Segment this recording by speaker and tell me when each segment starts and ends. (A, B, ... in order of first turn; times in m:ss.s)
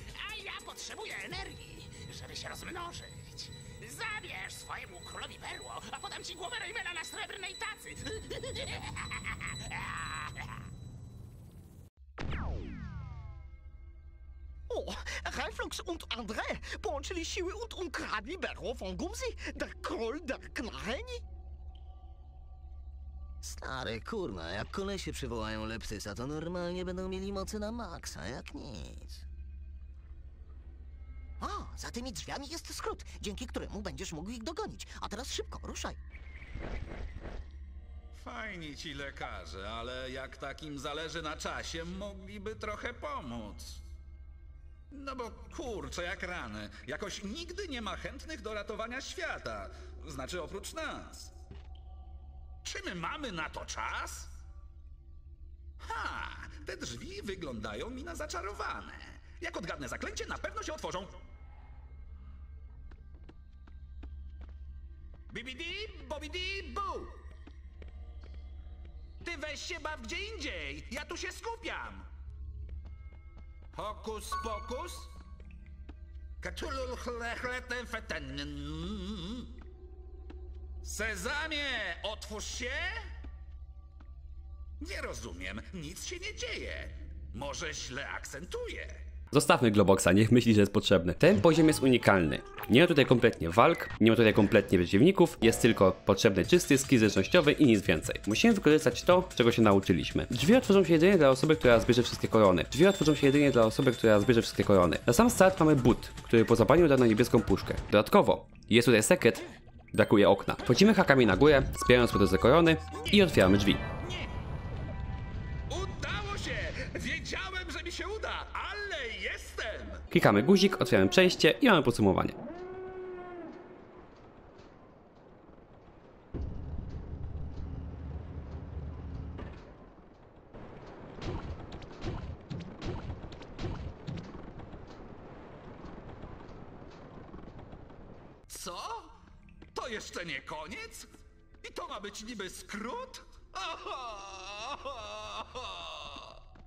0:00.3-0:08.3 A
0:14.7-0:21.2 B
0:23.4-0:29.2 C
0:31.4-0:36.0 B
0:38.2-0:43.8 D
0:44.9-0:51.3 D
0:52.6-0:54.3 D
0:55.8-1:01.2 D
1:05.3-1:07.2 D
1:09.2-1:12.1 D
1:13.7-1:15.1 D
1:16.4-1:19.5 D
1:20.8-1:23.1 D
1:24.8-1:29.0 D
1:29.3-1:53.8 E
1:54.0-1:54.3 D
1:55.7-2:00.0 D
2:00.1-2:02.4 E
2:18.5-2:19.2 D
2:19.7-2:21.1 D
2:21.6-2:26.4 D